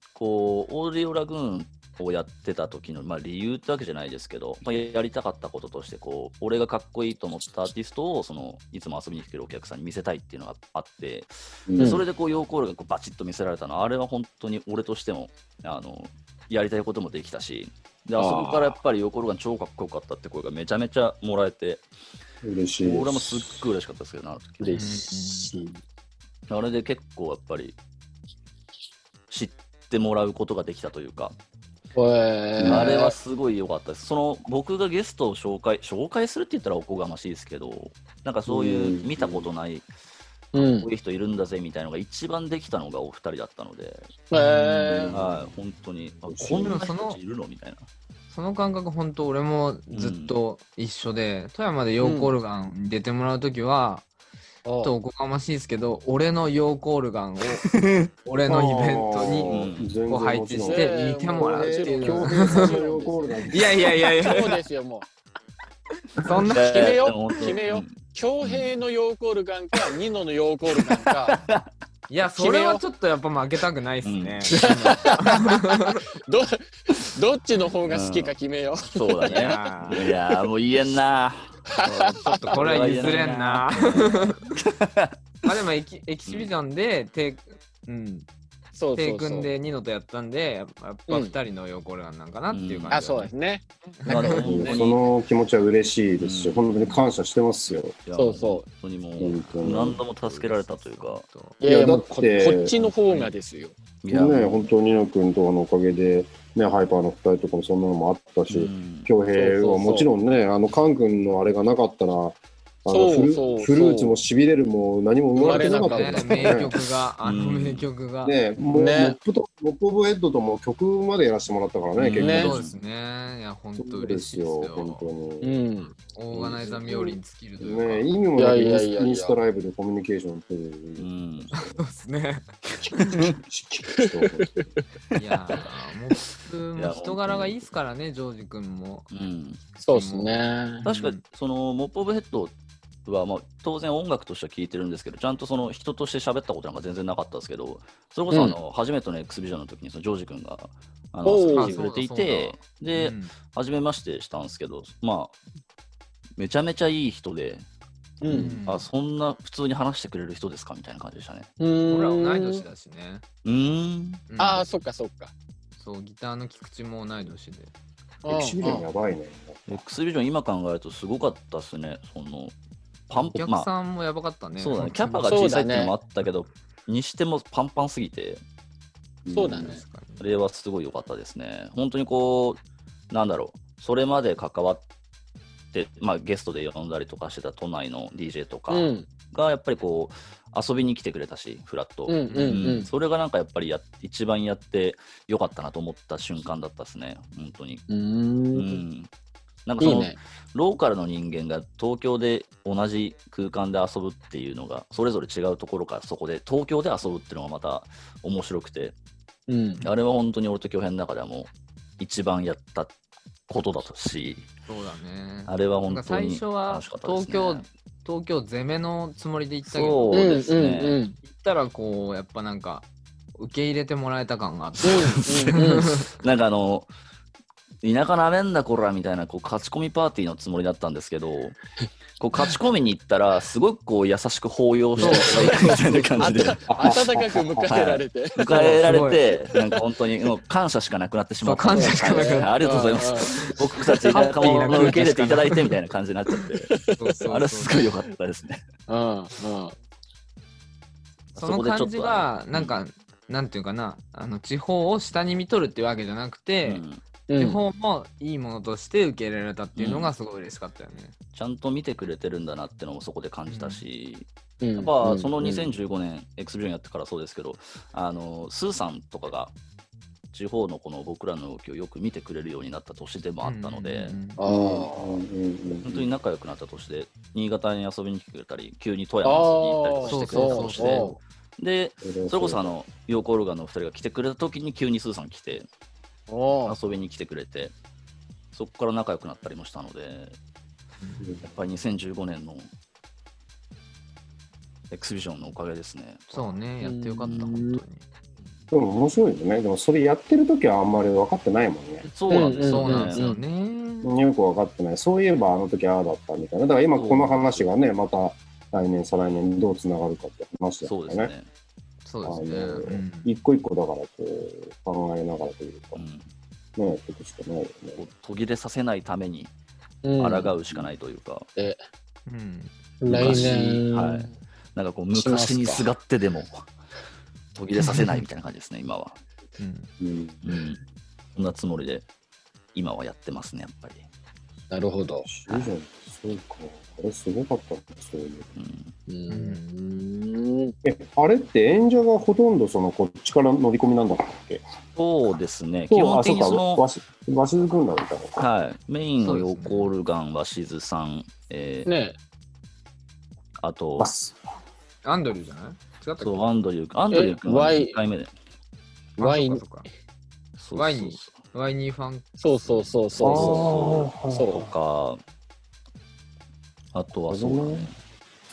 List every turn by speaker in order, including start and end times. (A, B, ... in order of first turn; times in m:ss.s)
0:00.1-0:21.8 A
0:11.7-0:12.0 B
0:11.8-0:12.0 C
0:18.2-0:18.8 C
0:22.4-0:23.6 B
0:22.8-0:24.9 A
0:24.6-0:25.8 C
0:24.7-0:25.6 D
0:26.5-0:27.8 A
0:29.3-0:31.4 A
0:31.9-0:33.1 C
0:32.6-0:32.9 B
0:32.6-0:39.8 A
0:38.5-0:39.5 B
0:40.5-0:44.1 A
0:40.5-0:40.9 C
0:44.3-0:45.2 C
0:44.3-0:45.1 D
0:44.9-0:47.9 A
0:46.2-0:46.8 B
0:46.5-0:47.2 D
0:48.3-0:54.0 D
0:49.9-0:50.4 A
0:52.0-0:52.3 C
0:54.6-0:54.9 C
0:54.8-1:02.8 D
0:58.4-1:03.9 B
0:59.5-0:59.9 A
1:00.6-1:03.4 C
1:03.5-1:04.6 D
1:04.2-1:05.0 C
1:06.2-1:07.4 D
1:06.5-1:08.7 A
1:06.6-1:11.4 C
1:11.3-1:11.7 A
1:12.1-1:16.0 D
1:12.2-1:12.8 C
1:14.0-1:15.0 A
1:14.5-1:15.5 C
1:16.2-1:20.1 C
1:17.8-1:18.3 A
1:18.8-1:25.5 A
1:19.2-1:20.1 D
1:21.8-1:23.3 C
1:22.2-1:24.5 D
1:23.9-1:24.1 C
1:25.4-1:28.3 D
1:28.8-1:29.5 C
1:28.9-1:33.3 D
1:31.1-1:31.3 C
1:32.5-1:33.0 A
1:32.9-1:34.8 C
1:33.9-1:34.5 D
1:34.0-1:35.1 A
1:34.4-1:38.0 B
1:36.2-1:37.0 A
1:38.0-1:41.2 A
1:38.1-1:38.6 C
1:39.2-1:40.0 B
1:39.4-1:41.6 D
1:41.6-1:43.7 C
1:41.6-1:42.7 B
1:42.7-1:43.3 A
1:44.0-1:44.7 A
1:44.1-1:56.7 B
1:48.5-1:49.1 A
1:49.4-1:50.1 C
1:52.9-1:54.2 C
1:55.4-1:56.8 C
1:55.4-1:58.4 D
1:57.2-1:57.8 A
1:58.2-2:02.5 B
1:58.7-1:59.2 C
2:02.0-2:02.8 A
2:02.2-2:02.5 C
2:02.2-2:05.1 D
2:03.8-2:05.7 B
2:05.4-2:06.0 C
2:06.0-2:08.1 D
2:06.3-2:11.8 B
2:08.4-2:09.4 C
2:11.0-2:11.5 A
2:11.5-2:13.2 D
2:12.8-2:14.7 B
2:13.1-2:13.4 A
2:15.1-2:19.1 D
2:16.8-2:17.6 A
2:19.1-2:19.6 A
2:19.7-2:21.2 D
2:19.8-2:20.8 C
2:20.8-2:22.5 A
2:23.0-2:35.3 A
2:28.3-2:28.6 C
2:31.2-2:31.8 C
2:31.5-2:33.3 D
2:36.4-2:37.6 A
2:38.2-2:38.6 C
2:38.3-2:41.5 A
2:38.3-2:38.9 D
2:41.6-2:42.6 C
2:41.9-2:43.2 D
2:43.4-2:44.2 A
2:44.3-2:44.6 D
2:44.4-2:45.3 C
2:45.8-2:47.7 D
2:48.2-2:48.9 C
2:48.3-2:49.8 B
2:49.7-2:52.5 A
2:53.1-2:53.7 A
2:53.1-2:55.5 D
2:54.6-2:58.4 A
2:55.3-2:55.9 C
2:59.2-2:59.8 B
2:59.3-2:59.8 C
2:59.5-3:00.3 D
3:00.2-3:04.8 A
3:05.7-3:17.8 A
3:08.7-3:09.1 C
3:12.1-3:12.9 C
3:12.3-3:12.8 D
3:17.9-3:18.8 C
3:18.5-3:19.1 A
3:19.6-3:28.9 A
3:19.8-3:20.2 C
3:29.5-3:29.8 C
3:29.8-3:32.9 A
3:33.5-3:34.5 A
3:34.7-3:40.3 D
3:35.5-3:37.6 A
3:39.6-3:41.0 A
3:40.1-3:41.2 C
3:41.2-3:46.1 D
3:44.8-3:46.0 C
3:44.8-3:46.9 A
3:47.8-3:51.6 A
3:52.2-3:57.0 A
3:55.0-3:55.8 D
3:55.0-3:59.0 C
3:56.7-3:57.8 B
3:57.6-4:08.6 A
3:58.4-3:59.3 D
4:01.4-4:02.5 D
4:01.7-4:05.0 C
4:04.1-4:05.7 D
4:06.9-4:07.7 D
4:08.9-4:09.8 C
4:11.3-4:12.8 A
4:11.4-4:16.8 D
4:16.6-4:17.0 A
4:17.3-4:17.6 C
4:17.4-4:21.1 D
4:19.8-4:20.1 A
4:21.3-4:29.5 A
4:23.5-4:23.8 D
4:24.6-4:25.7 C
4:30.3-4:34.2 A
4:33.4-4:34.4 D
4:34.4-4:35.2 C
4:34.4-4:36.1 B
4:35.8-4:45.7 A
4:39.2-4:41.2 C
4:40.0-4:41.2 D
4:42.0-4:42.8 B
4:46.3-4:46.8 C
4:46.6-4:47.7 A
4:48.5-4:50.4 A
4:51.2-4:51.5 B
4:51.4-4:52.7 A
4:54.9-4:56.5 A
4:56.3-4:58.0 D
4:56.8-4:57.8 C
4:57.2-4:57.5 A
4:58.7-5:02.1 B
5:02.1-5:03.3 A
5:02.3-5:03.4 C
5:02.3-5:04.2 D
5:04.0-5:11.3 B
5:07.0-5:07.6 A
5:10.8-5:11.5 A
5:12.0-5:13.3 D
5:12.2-5:16.0 B
5:15.9-5:16.3 A
5:16.8-5:18.0 B
5:18.0-5:19.5 A
5:20.0-5:20.5 C
5:20.2-5:21.5 A
5:22.2-5:22.7 D
5:23.0-5:24.3 C
5:23.1-5:26.7 A
5:25.1-5:25.9 C
5:27.5-5:29.2 A
5:27.8-5:28.2 D
5:29.6-5:29.9 D
5:30.0-5:30.4 B
5:30.4-5:30.8 A
5:31.3-5:32.1 A
5:32.7-5:34.0 A
5:34.7-5:35.3 C
5:35.2-5:38.5 B
5:38.6-5:38.9 A
5:39.1-5:40.7 C
5:39.3-5:39.6 D
5:40.8-5:44.6 B
5:45.0-5:46.8 A
5:45.9-5:48.4 B
5:48.4-5:51.9 A
5:49.2-5:49.9 D
5:51.8-5:52.2 C
5:53.6-5:54.1 A
5:54.0-5:54.3 B
5:55.0-5:56.4 D
5:56.2-5:58.3 A
5:57.1-5:58.0 C
5:59.2-5:59.9 D
5:59.2-5:59.6 C
6:00.6-6:01.4 A
6:00.7-6:03.2 D
6:02.4-6:04.6 C
6:03.2-6:05.2 A
6:03.2-6:04.7 B
6:06.9-6:07.9 A
6:07.3-6:07.9 B